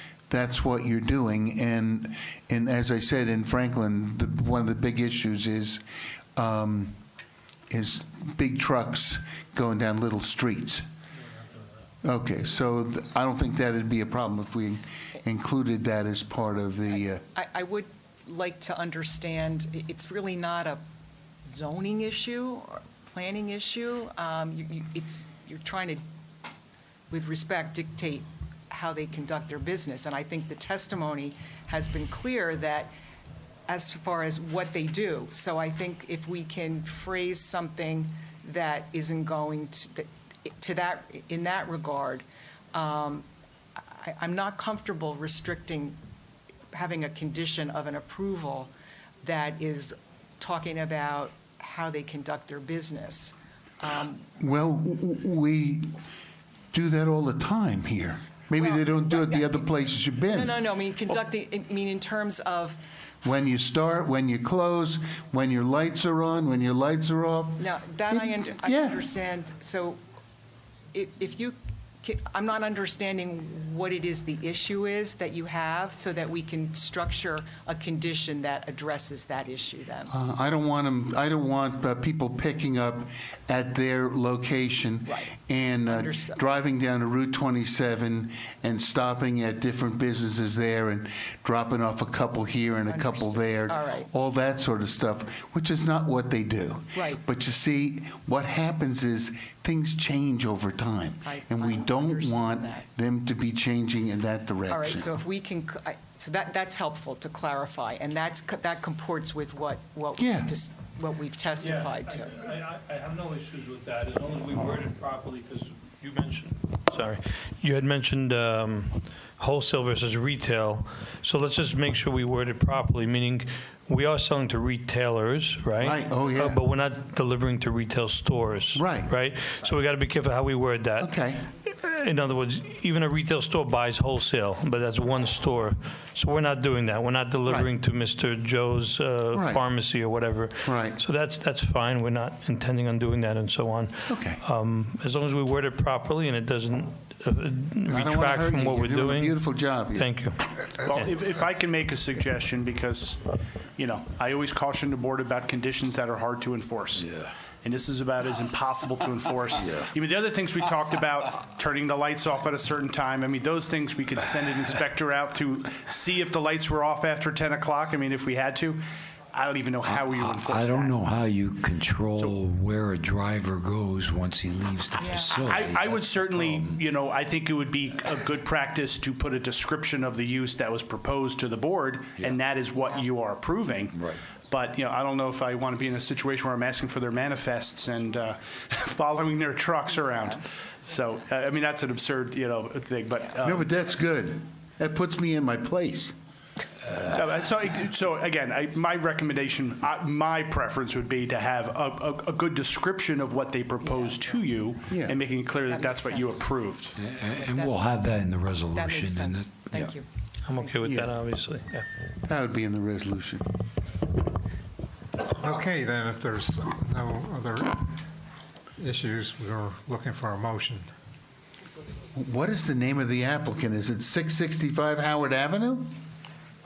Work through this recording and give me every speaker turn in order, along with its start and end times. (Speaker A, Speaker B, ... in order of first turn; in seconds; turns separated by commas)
Speaker A: 0.3-5.8, Speaker A: 6.3-7.0, Speaker A: 7.7-10.8, Speaker A: 12.0-17.2, Speaker B: 16.9-20.8, Speaker B: 21.4-26.0, Speaker B: 27.1-32.9, Speaker B: 33.7-43.2, Speaker B: 43.9-46.0, Speaker B: 46.7-48.7, Speaker B: 49.2-54.3, Speaker A: 54.4-56.0, Speaker A: 56.7-60.6, Speaker B: 58.5-62.8, Speaker A: 63.2-69.0, Speaker B: 67.6-70.0, Speaker B: 70.9-80.1, Speaker A: 80.1-105.2, Speaker B: 85.0-85.3, Speaker B: 85.8-86.5, Speaker B: 92.9-94.1, Speaker B: 96.9-97.2, Speaker B: 101.2-102.9, Speaker B: 104.7-112.5, Speaker A: 110.2-110.5, Speaker C: 111.6-131.1, Speaker A: 125.8-126.6, Speaker A: 128.7-129.1, Speaker A: 131.0-131.4, Speaker C: 131.6-151.1, Speaker A: 139.3-139.6, Speaker A: 140.6-141.0, Speaker A: 144.1-144.4, Speaker A: 147.8-150.1, Speaker D: 150.8-153.2, Speaker D: 153.8-157.1, Speaker E: 157.0-157.3, Speaker D: 157.6-171.0, Speaker E: 169.8-176.8, Speaker B: 175.0-175.4, Speaker D: 175.3-193.7, Speaker E: 183.9-184.2, Speaker A: 193.4-196.2, Speaker D: 197.1-206.9, Speaker B: 203.8-204.1, Speaker A: 204.9-205.2, Speaker B: 205.6-206.5, Speaker E: 206.9-209.9, Speaker B: 207.3-208.0, Speaker B: 208.7-210.0, Speaker C: 210.4-211.8, Speaker A: 210.8-211.1, Speaker A: 212.2-213.5, Speaker F: 215.2-217.9, Speaker F: 218.8-220.9, Speaker A: 222.1-225.9